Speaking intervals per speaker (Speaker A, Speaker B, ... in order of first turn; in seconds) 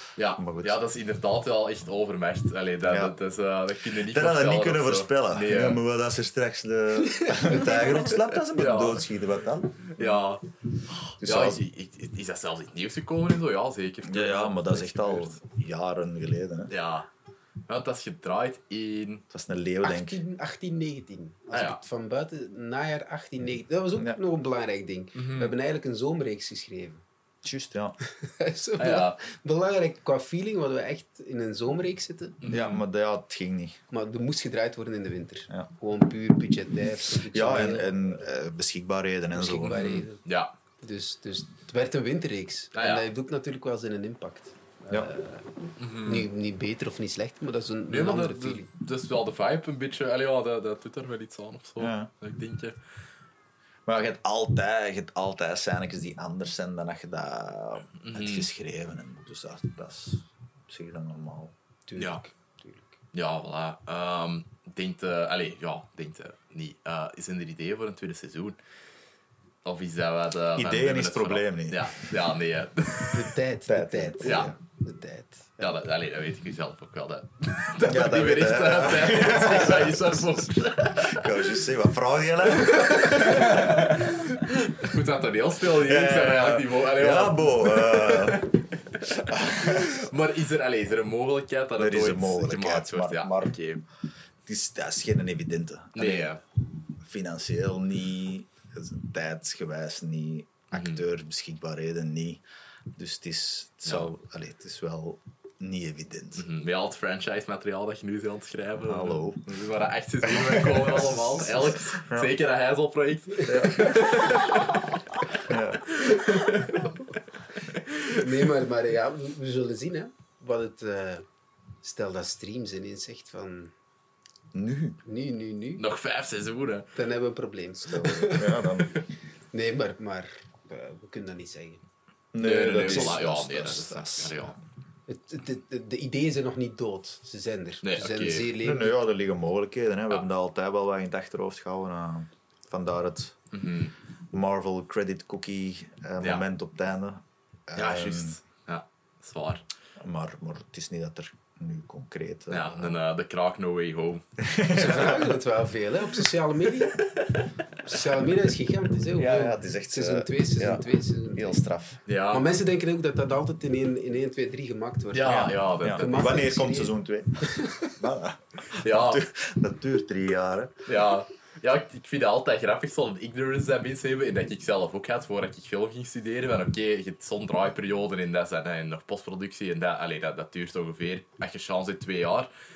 Speaker A: 0.2-5.8, 7.7-9.0, 9.9-10.4, 11.0-15.3, 16.7-17.1, 17.7-19.2, 21.5-21.8, 25.1-25.5, 28.8-29.2, 32.4-32.8, 39.7-40.5, 42.8-43.0, 45.8-46.3, 47.9-52.8, 58.0-58.5, 63.1-68.6, 69.6-73.3, 74.2-74.5, 75.6-81.4, 82.7-93.8, 96.0-96.4, 100.7-101.0, 106.3-114.8, 116.0-116.9, 117.8-118.2, 125.8-126.9, 132.4-134.6, 137.8-138.5, 143.5-143.9, 147.8-149.6, 152.5-154.2, 162.1-162.5, 165.1-166.4, 168.8-169.2, 170.9-182.5
Speaker B: 0.3-0.8, 2.9-3.1, 4.0-10.3, 11.2-11.6, 14.0-16.7, 19.3-20.2, 27.4-28.0, 32.5-33.8, 37.3-39.9, 51.8-52.1, 53.9-61.5, 70.5-71.9, 73.7-74.5, 77.8-80.2, 80.9-84.2, 85.7-88.4, 89.0-90.1, 91.8-93.6, 94.5-96.3, 97.0-102.4, 102.9-106.5, 108.8-109.4, 110.2-112.3, 113.5-114.3, 115.4-115.9, 124.5-125.0, 127.9-128.9, 132.3-134.5, 138.6-143.3, 144.3-148.3, 150.0-153.0, 154.4-155.4, 159.1-162.0, 165.2-170.8
Speaker C: 19.8-27.0, 28.2-32.4, 33.9-38.2, 39.3-40.2, 40.8-48.7, 61.9-62.9, 73.1-75.7, 111.0-111.4, 118.1-121.2, 121.8-123.7, 125.0-125.8, 126.9-128.8, 129.5-131.8, 135.1-139.0, 154.7-157.0, 157.8-161.6, 162.3-167.9